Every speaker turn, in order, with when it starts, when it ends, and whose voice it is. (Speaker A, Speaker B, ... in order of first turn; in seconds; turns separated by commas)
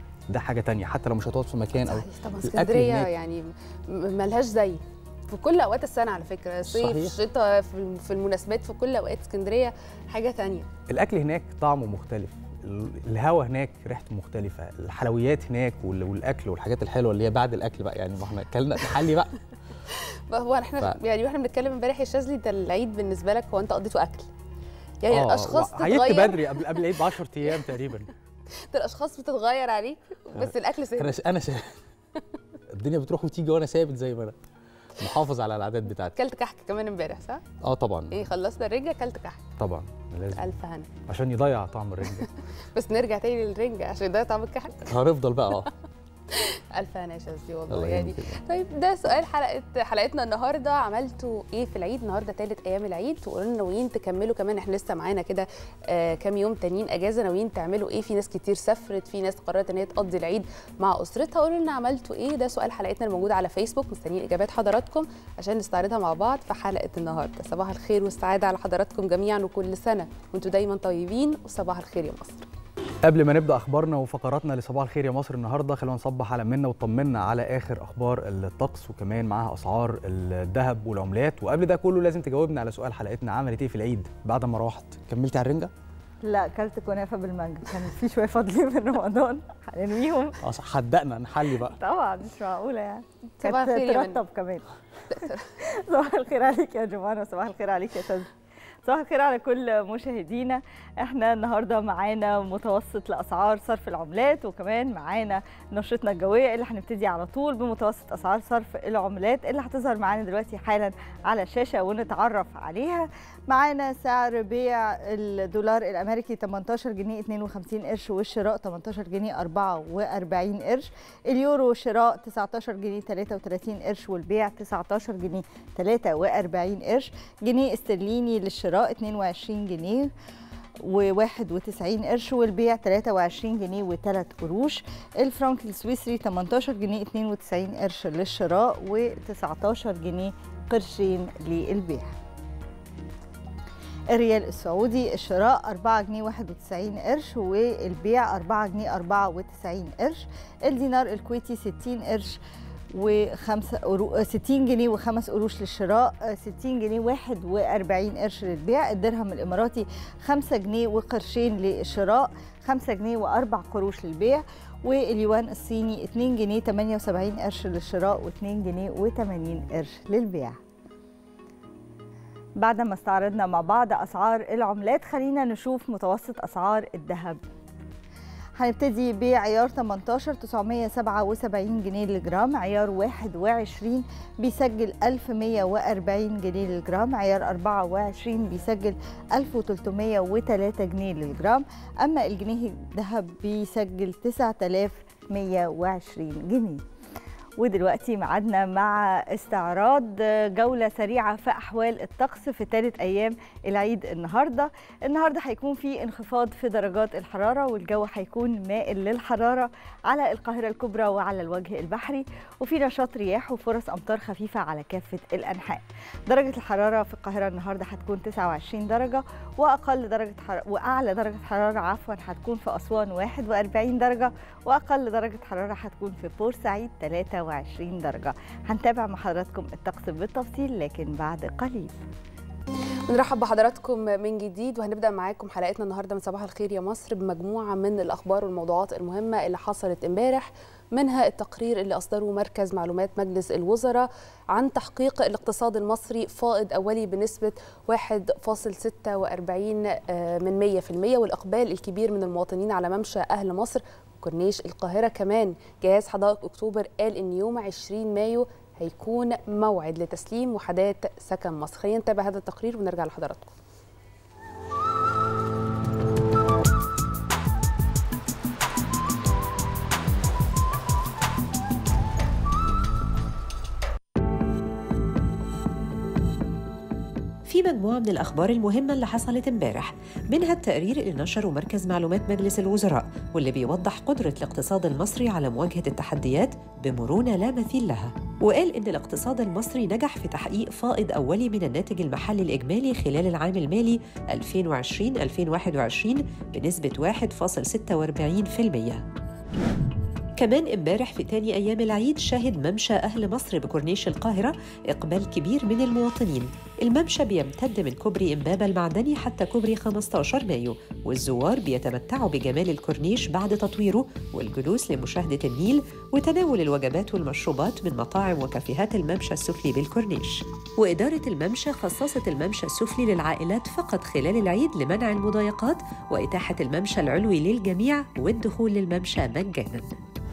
Speaker A: 0.3-3.1, Speaker B: 1.8-10.7, Speaker A: 6.6-7.1, Speaker A: 10.9-19.3, Speaker B: 19.9-24.3, Speaker B: 25.0-26.4, Speaker A: 25.1-28.1, Speaker B: 28.6-31.2, Speaker A: 30.3-31.7, Speaker A: 32.7-34.4, Speaker A: 35.0-36.1, Speaker B: 36.1-37.4, Speaker A: 37.6-38.2, Speaker B: 38.1-39.4, Speaker A: 39.6-40.4, Speaker B: 40.4-40.9, Speaker A: 41.1-42.3, Speaker B: 42.7-44.9, Speaker A: 44.9-45.7, Speaker B: 46.3-72.5, Speaker A: 47.7-48.4, Speaker A: 73.0-85.7, Speaker C: 86.2-90.3, Speaker A: 90.4-91.8, Speaker C: 91.6-94.7, Speaker B: 93.4-94.2, Speaker B: 95.1-95.5, Speaker C: 95.6-98.3, Speaker C: 98.8-130.1, Speaker C: 130.8-142.2, Speaker C: 144.1-152.4, Speaker C: 152.9-170.6, Speaker C: 172.6-177.4, Speaker C: 178.6-196.8, Speaker C: 197.6-232.0, Speaker B: 233.1-263.6, Speaker D: 277.5-299.0, Speaker D: 300.4-329.9